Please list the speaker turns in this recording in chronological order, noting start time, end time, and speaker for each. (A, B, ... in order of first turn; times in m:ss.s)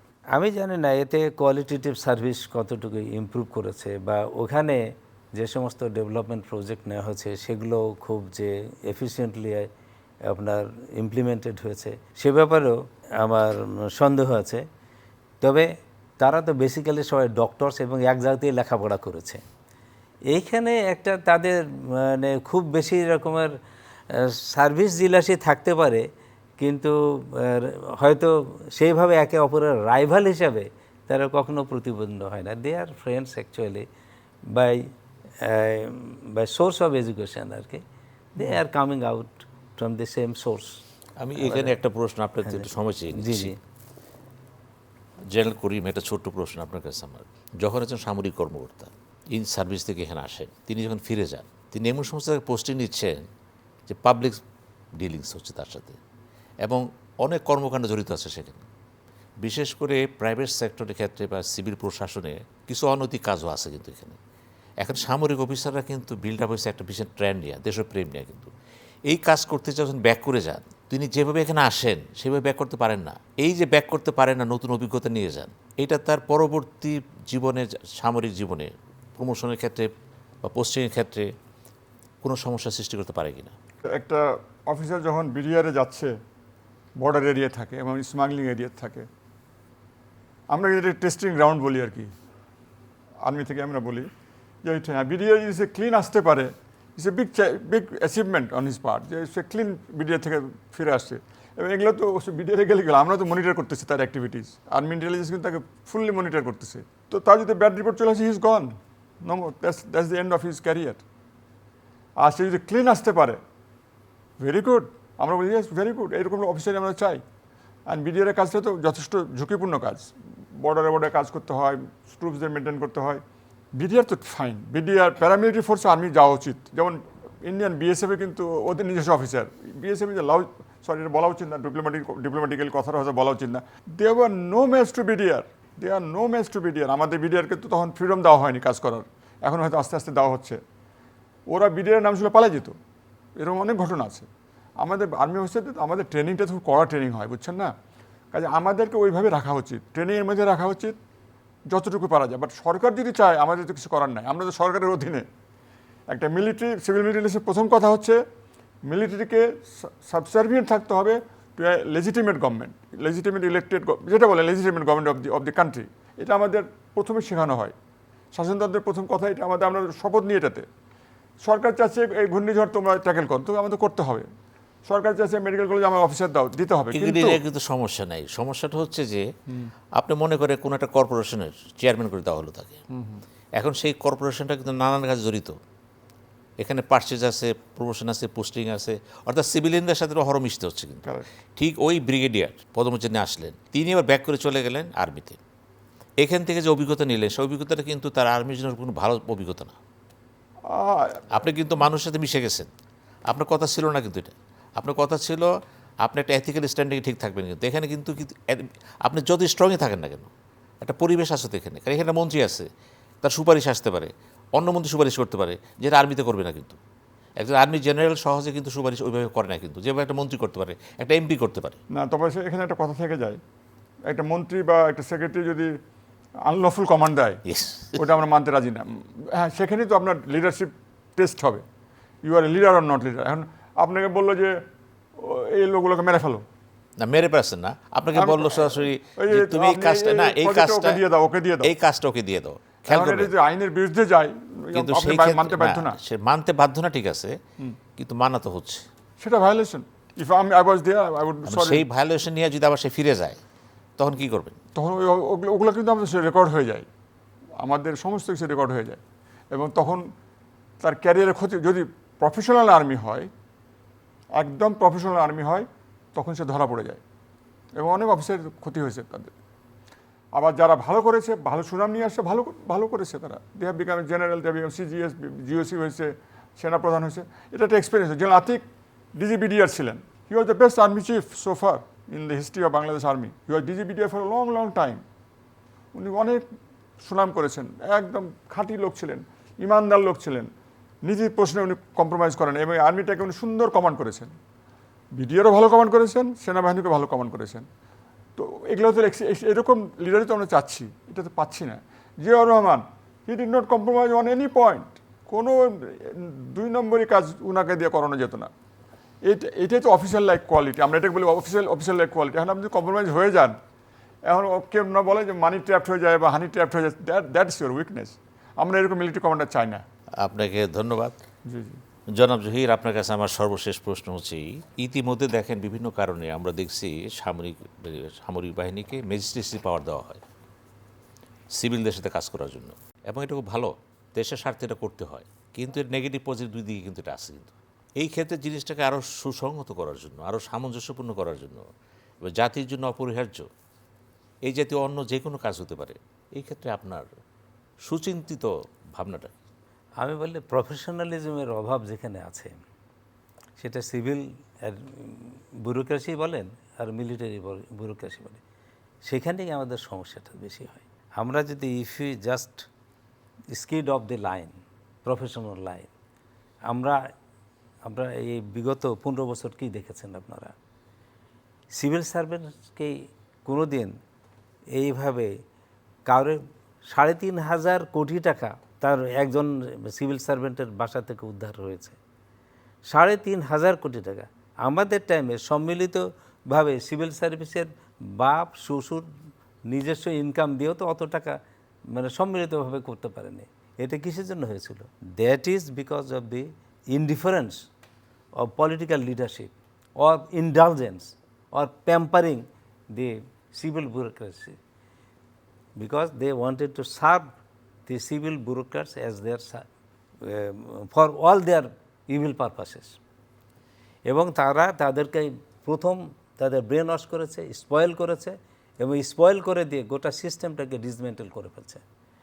0:00.3-0:04.8 A
0:05.4-0:09.7 A
0:10.3-0:14.7 A
0:15.4-0:19.4 A
0:20.3-0:23.6 A
0:24.1-0:26.1 A
0:26.6-0:33.9 A
0:34.5-0:37.8 A
0:38.4-0:40.8 A
0:41.2-0:43.5 B
0:41.4-0:41.8 A
0:42.4-0:43.6 A
0:45.3-0:53.2 B
0:53.9-0:54.4 B
0:55.0-0:56.0 B
0:56.6-0:58.7 B
0:59.4-1:04.2 B
1:04.8-1:08.5 B
1:09.1-1:19.9 B
1:20.4-1:21.3 B
1:22.2-1:23.5 B
1:23.9-1:26.2 C
1:27.0-1:29.1 C
1:30.5-1:32.1 C
1:33.2-1:34.1 C
1:34.6-1:51.0 C
1:52.2-1:53.4 C
1:54.4-1:57.2 C
1:57.9-2:03.2 C
2:03.8-2:20.6 C
2:21.5-2:22.8 C
2:23.4-2:24.3 C
2:24.8-2:27.7 C
2:28.3-2:31.0 C
2:31.7-2:35.3 C
2:36.1-2:38.2 C
2:38.9-2:47.8 C
2:48.4-2:50.7 C
2:51.4-2:54.3 C
2:54.9-2:57.4 C
2:56.9-2:59.3 B
3:00.0-3:02.8 B
3:02.9-3:03.2 C
3:03.6-3:05.6 B
3:06.6-3:15.4 B
3:16.2-3:19.8 B
3:20.7-3:21.5 C
3:21.3-3:22.7 B
3:23.3-3:25.5 B
3:26.0-3:30.3 B
3:30.8-3:32.7 B
3:33.2-3:36.8 B
3:37.4-3:41.8 B
3:41.9-3:43.4 C
3:44.1-3:45.7 C
3:46.5-3:47.4 C
3:47.5-3:48.0 B
3:48.0-3:51.6 C
3:52.2-3:54.6 C
3:55.2-3:56.4 C
3:57.0-4:01.0 B
3:58.1-4:01.8 C
4:01.6-4:03.3 B
4:02.9-4:06.0 C
4:04.7-4:07.4 B
4:08.0-4:08.9 B
4:09.2-4:11.8 C
4:11.5-4:13.4 B
4:14.0-4:14.6 B
4:14.8-4:16.9 C
4:17.6-4:19.0 C
4:19.5-4:20.0 C
4:20.8-4:23.3 C
4:24.4-4:27.0 C
4:27.8-4:29.3 C
4:30.4-4:38.6 C
4:39.2-4:45.0 C
4:45.9-4:46.4 C
4:47.0-4:50.5 C
4:51.0-4:54.4 C
4:55.2-4:57.7 C
4:58.4-5:08.5 C
5:09.3-5:13.6 C
5:14.3-5:19.8 C
5:20.2-5:21.2 B
5:21.4-5:21.8 C
5:22.2-5:30.2 B
5:31.6-5:41.6 B
5:42.3-5:43.5 B
5:44.5-5:47.1 B
5:47.9-5:49.3 B
5:50.0-5:52.6 A
5:53.6-5:58.4 A
5:59.0-6:02.7 A
6:03.5-6:05.9 A
6:06.7-6:07.0 A
6:07.8-6:10.5 A
6:11.7-6:14.0 A
6:14.7-6:15.4 A
6:16.1-6:22.0 A
6:22.9-6:29.1 A
6:29.7-6:31.4 A
6:31.9-6:37.7 A
6:38.4-6:44.6 A
6:45.8-6:47.4 A
6:47.9-6:49.6 A
6:50.2-6:53.0 A
6:54.1-7:01.8 A